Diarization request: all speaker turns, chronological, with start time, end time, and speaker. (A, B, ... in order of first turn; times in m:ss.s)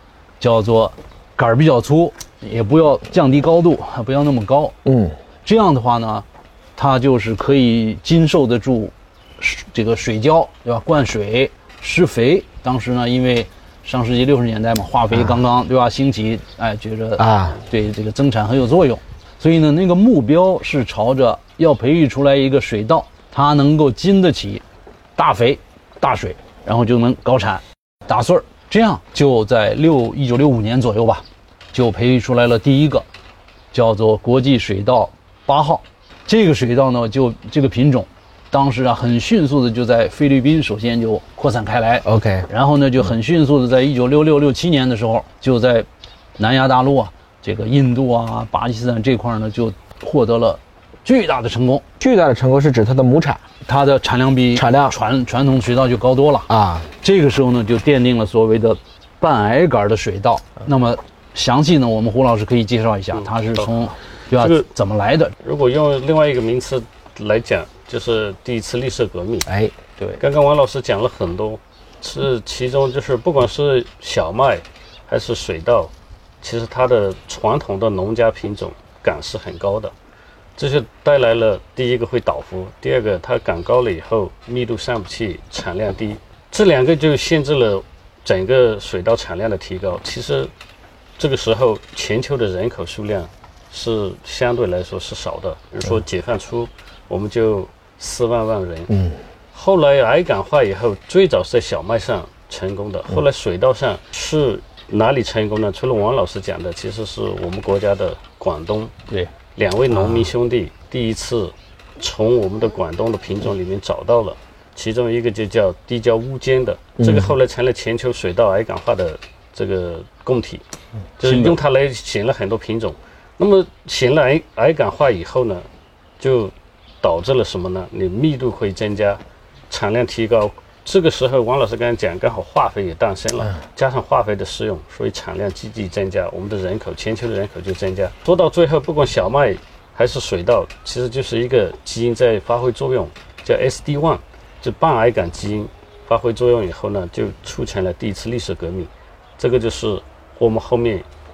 0:00.4-0:04.8 A
0:04.8-0:05.2 B
0:05.4-0:24.6 A
0:15.1-0:15.4 B
0:17.2-0:17.6 B
0:25.2-0:33.1 A
0:33.7-0:51.8 A
0:42.0-0:42.5 B
0:52.0-0:53.4 B
0:53.6-1:05.3 A
0:54.6-0:55.0 B
0:56.5-0:56.9 B
1:03.1-1:04.7 C
1:05.4-1:09.5 C
1:09.5-1:09.7 B
1:10.2-1:19.9 C
1:20.6-1:30.5 C
1:31.2-1:38.9 C
1:38.9-1:39.2 B
1:39.5-1:48.9 C
1:49.6-2:00.6 C
1:57.0-1:57.3 B
2:01.2-2:05.7 C
2:01.2-2:01.6 A
2:06.2-2:31.1 C